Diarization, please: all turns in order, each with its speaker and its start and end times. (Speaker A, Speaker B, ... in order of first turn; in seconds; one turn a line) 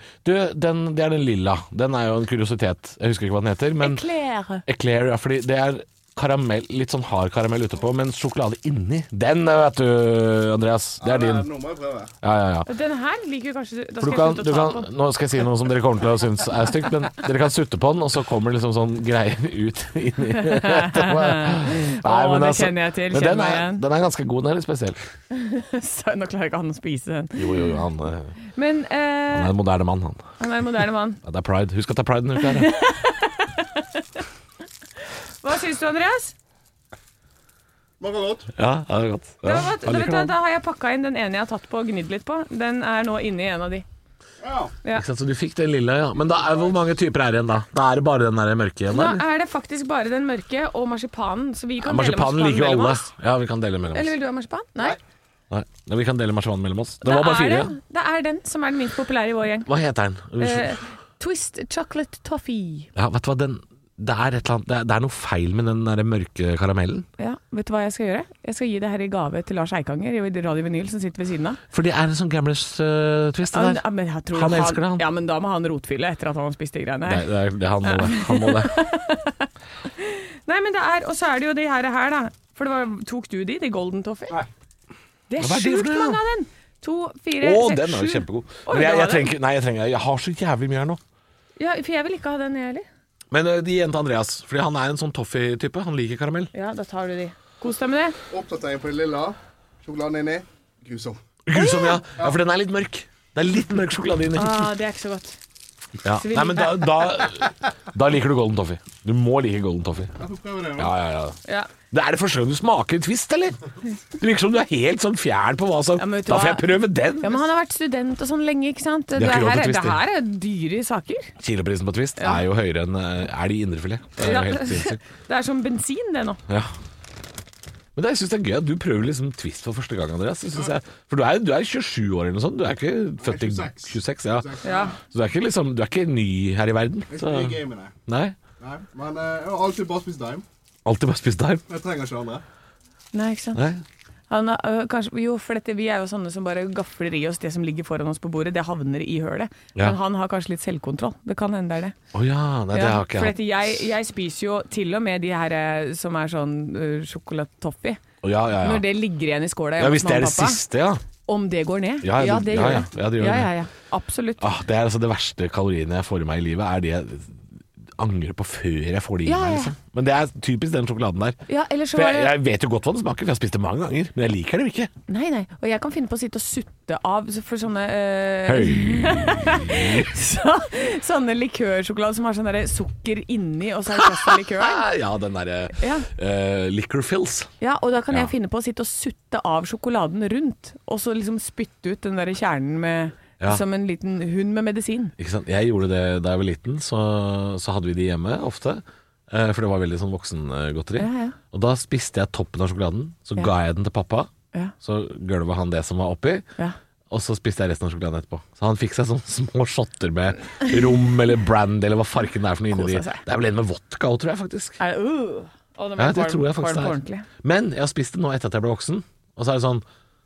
Speaker A: 0.2-4.0
Speaker B: 3.8-4.6
Speaker A: 4.7-11.5
Speaker C: 11.0-12.1
Speaker A: 12.2-12.7
Speaker B: 12.7-14.9
Speaker A: 14.0-25.1
Speaker B: 20.3-23.8
Speaker B: 25.3-27.7
Speaker A: 27.4-28.3
Speaker B: 28.5-29.5
Speaker A: 29.3-30.3
Speaker B: 30.4-31.2
Speaker A: 31.2-32.7
Speaker B: 32.4-34.2
Speaker B: 35.4-36.3
Speaker C: 38.0-38.5
Speaker A: 38.5-40.3
Speaker B: 39.4-43.9
Speaker C: 44.4-44.8
Speaker A: 44.9-49.2
Speaker B: 48.9-53.1
Speaker A: 51.8-54.1
Speaker B: 53.9-55.0
Speaker A: 55.5-57.7
Speaker B: 57.0-59.7
Speaker A: 59.6-60.8
Speaker B: 60.4-62.9
Speaker A: 62.9-67.1
Speaker B: 67.2-71.6
Speaker A: 71.7-75.0
Speaker B: 73.5-77.2
Speaker A: 77.0-78.7
Speaker B: 77.8-84.4
Speaker B: 85.3-89.3
Speaker A: 85.4-86.2
Speaker A: 87.4-91.0
Speaker B: 91.6-92.8
Speaker A: 93.3-96.5
Speaker B: 96.5-98.2
Speaker C: 98.3-101.2
Speaker A: 101.5-104.7
Speaker B: 101.5-102.0
Speaker B: 104.3-105.4
Speaker A: 106.0-110.1
Speaker B: 106.1-107.2
Speaker C: 110.2-110.9
Speaker A: 110.8-111.4
Speaker A: 111.9-113.6
Speaker A: 114.2-117.4
Speaker B: 116.0-121.3
Speaker A: 119.1-120.0
Speaker A: 121.4-125.0
Speaker B: 122.2-122.4
Speaker B: 124.2-126.4
Speaker A: 127.9-138.3
Speaker C: 133.2-135.0
Speaker B: 134.6-134.9
Speaker C: 137.1-137.9
Speaker C: 138.6-140.4
Speaker A: 140.8-141.6
Speaker C: 141.7-142.4
Speaker B: 143.1-143.6
Speaker A: 143.5-143.8
Speaker B: 144.3-151.9
Speaker A: 152.1-153.4
Speaker B: 152.7-158.0
Speaker A: 158.2-158.9
Speaker B: 158.6-160.6
Speaker A: 159.8-161.0
Speaker B: 161.2-164.4
Speaker A: 162.0-163.5
Speaker A: 164.4-171.4
Speaker B: 169.2-169.7
Speaker B: 171.5-172.3
Speaker A: 171.9-174.9
Speaker B: 175.1-184.8
Speaker A: 178.4-180.1
Speaker A: 183.9-187.5
Speaker B: 185.8-186.1
Speaker B: 187.6-195.1
Speaker A: 195.2-206.4
Speaker B: 201.0-201.4
Speaker A: 207.1-214.8
Speaker B: 212.7-213.2
Speaker B: 214.8-217.2
Speaker A: 216.0-219.8